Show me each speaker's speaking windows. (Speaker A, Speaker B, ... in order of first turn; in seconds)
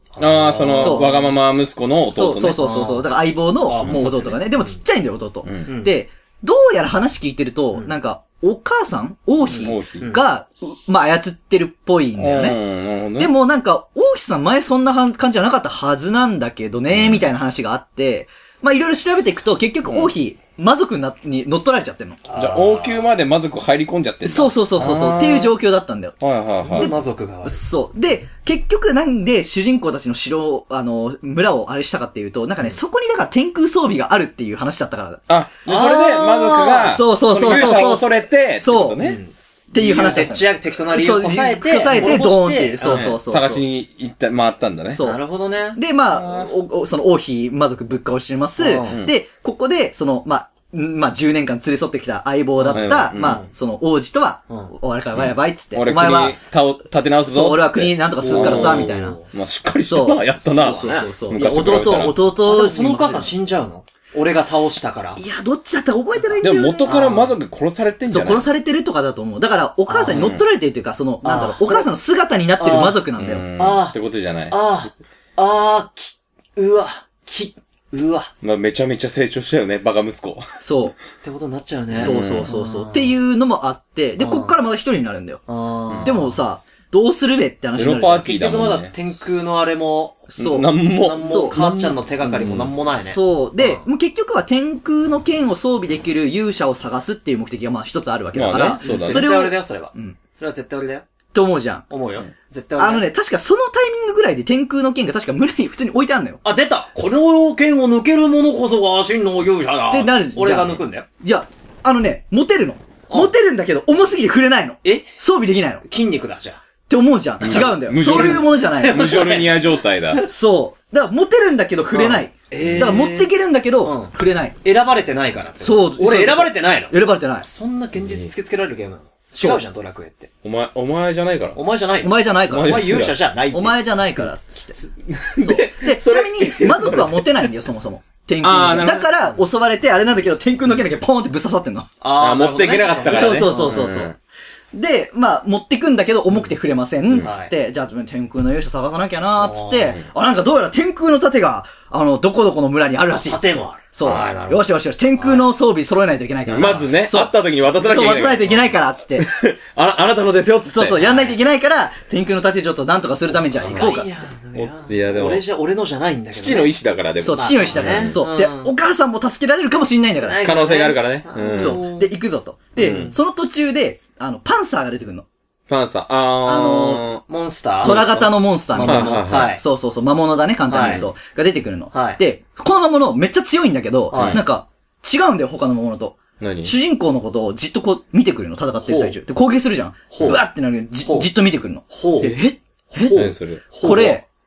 Speaker A: 0.1-1.3, 2.6-3.0, 3.6-4.8, 22.3-23.1, 26.7-27.6, 35.6-38.0, 39.0-43.1, 45.0-45.8, 48.6-49.0, 52.6-53.5, 58.2-59.2, 60.5-61.1, 62.4-65.2, 66.9-67.3, 69.9-70.3, 71.2-71.9, 72.6-73.0, 73.6-74.0, 74.5-78.3, 81.2-83.1, 84.2-84.5, 85.5-86.3, 88.2-90.3, 90.9-93.8, 98.8-101.0, 101.9-103.0, 106.4-111.0, 114.8-115.1, 115.8-116.6, 117.5-120.2, 121.9-123.3, 123.8-124.1, 124.6-130.3, 131.5-133.9, 142.0-143.8, 147.2-147.5, 149.3-150.0, 153.2-154.6, 155.2-155.4, 156.6-156.8, 161.0-161.4, 163.5-166.7, 167.3-168.7, 170.2-172.1, 172.8-173.1, 177.2-179.6, 180.7-181.1, 181.9-182.2, 184.1-184.4, 188.8-189.1, 190.1-190.4, 191.9-192.4, 192.9-194.2
Speaker B: 0.2-2.6, 3.8-4.1, 9.6-10.1, 12.2-13.3, 16.9-17.2, 19.9-20.1, 22.4-25.5, 26.2-26.9, 35.3-39.2, 42.9-45.0, 46.1-46.5, 52.7-53.4, 55.1-62.1, 66.4-68.5, 70.1-70.4, 73.2-74.8, 78.4-80.4, 81.9-82.5, 87.7-89.0, 90.4-92.7, 98.3-99.3, 117.4-120.2, 122.6-122.9, 128.0-128.3, 130.4-131.6, 132.5-133.1, 135.1-137.5, 138.4-139.1, 142.2-144.1, 156.5-158.6, 159.2-161.0, 164.5-165.4, 166.3-168.2, 170.4-171.8, 172.8-173.1, 175.7-177.2, 178.8-179.6, 180.8-181.0, 184.1-184.4, 186.4-186.7, 193.1-193.6
Speaker C: 0.8-1.2, 2.1-12.6, 13.2-22.2, 24.2-35.2, 36.8-38.1, 38.6-39.0, 39.7-43.6, 44.9-45.2, 45.7-56.4, 57.2-59.2, 59.8-63.3, 65.2-67.0, 68.1-73.5, 80.6-81.0, 82.0-85.4, 86.0-88.3, 90.3-90.7, 91.2-91.5, 92.9-100.2, 101.3-101.8, 102.8-106.4, 109.9-115.8, 116.9-119.0, 120.2-124.5, 125.6-127.5, 132.0-134.8, 135.4-141.9, 143.1-144.1, 144.7-159.3, 160.7-164.3, 167.2-170.5, 171.5-175.2, 176.4-177.1, 177.8-193.2, 193.8-194.2